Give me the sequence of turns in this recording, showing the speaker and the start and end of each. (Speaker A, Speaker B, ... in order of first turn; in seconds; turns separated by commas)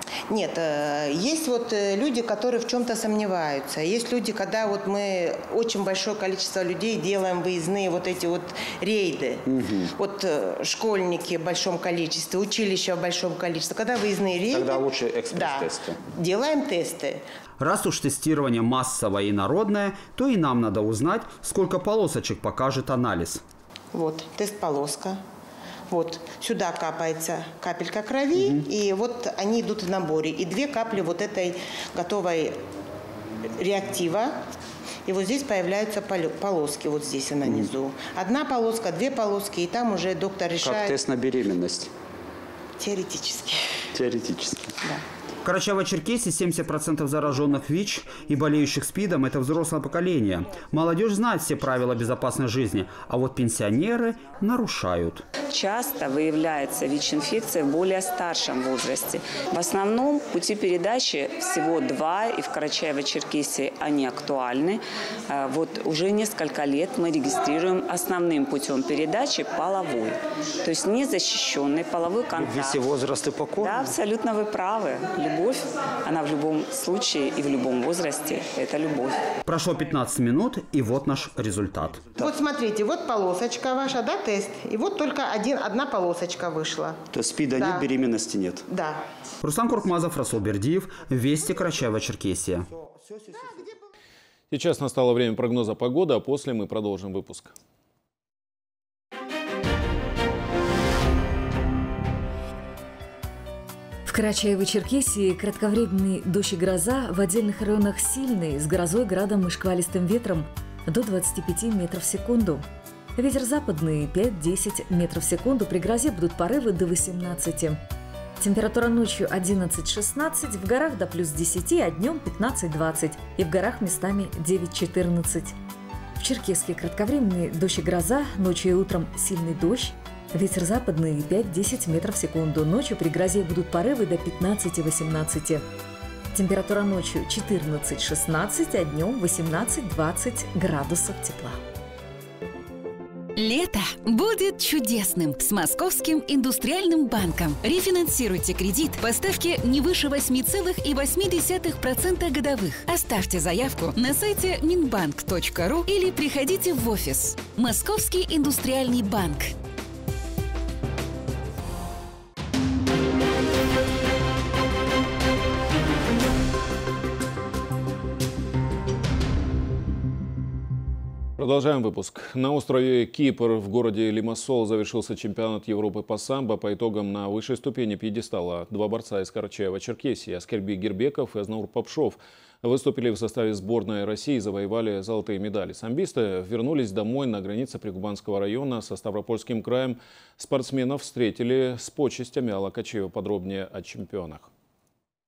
Speaker A: 0.3-9.4, Speaker B: 9.5-9.9, Speaker A: 10.0-17.2, Speaker B: 14.5-16.0, Speaker B: 17.6-23.4, Speaker A: 23.9-25.2, Speaker A: 25.9-32.6, Speaker B: 28.4-28.7, Speaker A: 33.6-34.4, Speaker A: 35.1-41.0, Speaker B: 37.4-37.7, Speaker B: 40.6-41.9, Speaker A: 42.8-43.6, Speaker B: 43.9-44.7, Speaker B: 45.4-55.3, Speaker C: 55.5-72.8, Speaker B: 72.4-73.9, Speaker C: 73.6-79.2, Speaker B: 79.5-82.2, Speaker A: 82.2-87.0, Speaker B: 87.1-88.7, Speaker A: 87.5-87.9, Speaker A: 88.7-89.0, Speaker B: 89.4-92.7, Speaker D: 94.5-97.5, Speaker E: 104.1-112.6, Speaker E: 113.2-117.8, Speaker E: 118.4-125.5, Speaker E: 126.2-135.6, Speaker E: 136.3-141.6, Speaker F: 143.4-159.5, Speaker D: 171.4-194.5